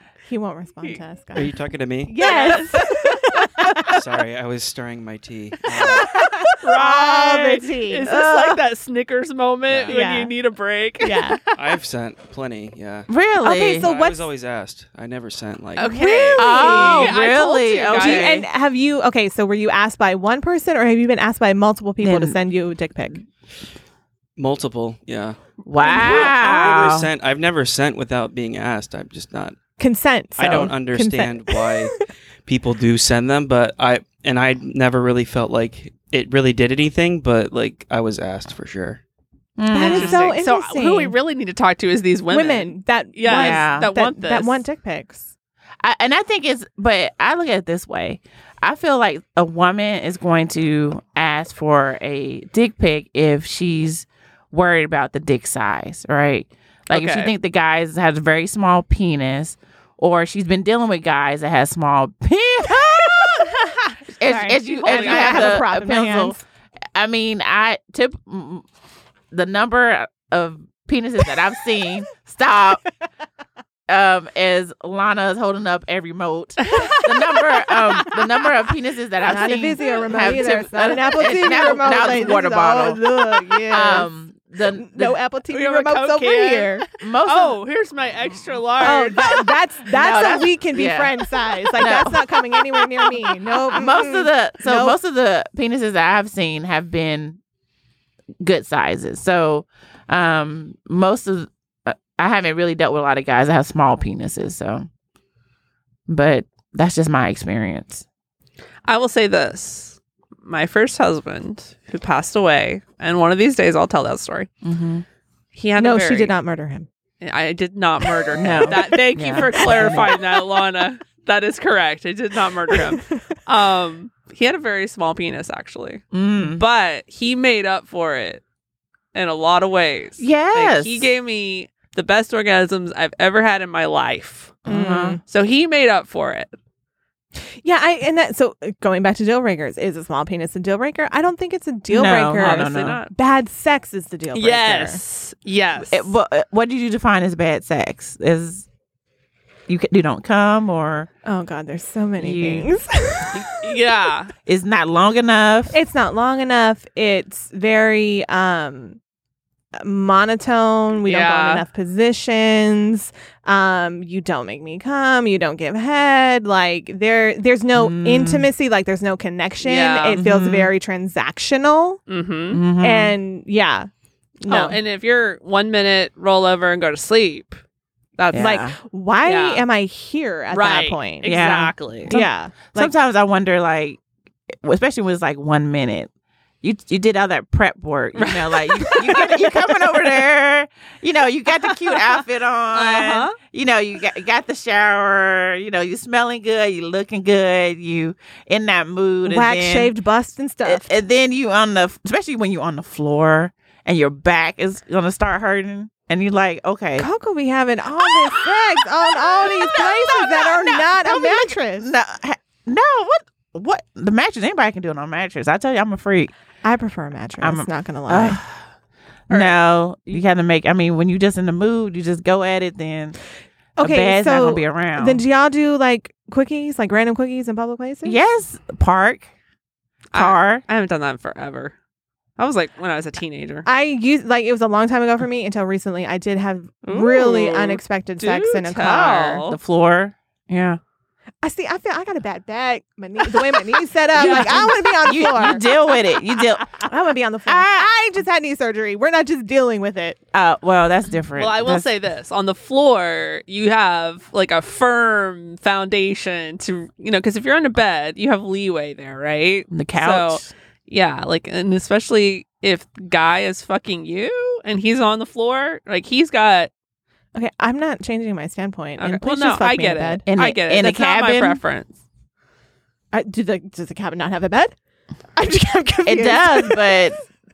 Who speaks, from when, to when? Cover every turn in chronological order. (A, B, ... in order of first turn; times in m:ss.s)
0:00.3-0:04.0 A
0:01.3-0:02.1 B
0:02.2-0:02.6 C
0:03.8-0:06.1 B
0:05.7-0:08.1 A
0:06.5-0:11.4 C
0:08.0-0:08.6 D
0:09.7-0:09.9 B
0:09.9-0:10.3 A
0:11.0-0:11.4 A
0:11.5-0:13.1 B
0:13.1-0:13.9 D
0:13.4-0:14.2 A
0:13.7-0:15.9 B
0:15.8-0:18.3 C
0:15.8-0:17.2 A
0:16.3-0:18.5 D
0:17.9-0:23.2 A
0:22.0-0:22.4 D
0:24.4-0:29.6 B
0:25.6-0:27.1 D
0:25.8-0:26.7 A
0:25.8-0:26.2 C
0:29.8-0:31.8 A
0:30.4-0:39.0 B
0:39.6-0:40.4 D
0:39.7-0:41.1 A
0:39.8-0:44.6 C
0:42.3-0:45.2 A
0:43.3-0:43.9 D
0:45.8-1:03.4 D
0:56.9-0:57.3 C
1:04.2-1:06.4 D
1:04.2-1:05.6 C
1:04.2-1:06.4 A
1:06.9-1:08.6 D
1:09.3-1:12.8 D
1:13.9-1:23.0 D
1:16.7-1:18.2 A
1:19.2-1:24.1 A
1:23.7-1:25.2 D
1:24.7-1:26.8 A
1:25.5-1:29.4 C
1:27.0-1:27.6 D
1:28.8-1:35.0 A
1:29.8-1:31.1 D
1:31.8-1:32.3 D
1:33.7-1:37.4 D
1:38.4-1:44.9 D
1:46.1-1:48.0 D
1:48.8-1:54.5 C
1:54.6-1:55.0 D
1:55.5-1:56.3 C
1:55.8-1:56.9 A
1:57.2-2:08.4 C
1:58.3-2:00.2 D
1:58.4-1:59.0 A
1:59.5-2:00.0 A
2:06.1-2:06.6 D
2:09.1-2:14.6 C
2:10.2-2:11.1 D
2:14.6-2:15.2 D
2:14.7-2:15.2 A
2:15.2-2:16.5 C
2:17.6-2:25.0 A
2:21.9-2:23.0 D
2:22.4-2:23.1 C
2:24.3-2:26.1 C
2:25.9-2:28.6 D
2:29.7-2:31.1 D
2:31.2-2:33.6 A
2:32.2-2:32.7 D
2:33.4-2:34.3 C
2:34.4-2:35.8 D
2:35.7-2:39.0 A
2:39.8-2:52.0 A
2:41.0-2:41.6 C
2:47.8-2:48.5 D
2:49.6-2:50.2 C
2:50.1-2:50.7 D
2:52.1-2:52.6 C
2:52.5-2:53.2 D
2:52.8-2:53.9 A
2:54.4-2:54.8 A
2:54.5-2:57.6 C
2:58.2-2:58.5 C
2:58.3-2:58.7 D
2:58.4-3:01.3 A
2:59.2-2:59.6 C
3:00.5-3:02.1 C
3:01.2-3:04.0 D
3:02.1-3:02.9 A
3:04.6-3:06.1 D
3:06.6-3:19.9 D
3:08.2-3:09.4 C
3:12.7-3:13.4 C
3:19.2-3:20.9 A
3:20.6-3:27.1 D
3:27.0-3:31.9 A
3:28.3-3:36.3 D
3:36.6-3:38.4 A
3:37.4-3:38.5 D
3:39.3-3:43.2 D
3:39.3-3:39.6 C
3:43.8-3:48.2 A
3:43.8-3:45.2 D
3:48.0-3:49.3 D
3:50.1-3:51.7 C
3:50.1-3:50.6 D
3:52.4-3:53.6 C
3:53.6-3:59.4 A
3:56.8-3:59.6 C
3:59.4-4:00.8 D
4:01.4-4:05.6 A
4:04.1-4:06.7 D
4:04.2-4:04.8 C
4:06.8-4:10.2 A
4:07.4-4:07.9 D
4:10.3-4:11.8 D
4:11.4-4:26.7 C
4:19.7-4:20.5 D
4:27.3-4:30.2 A
4:29.0-4:32.0 C
4:30.3-4:31.6 D
4:33.1-4:34.7 A
4:35.3-4:37.0 A
4:36.0-4:37.2 D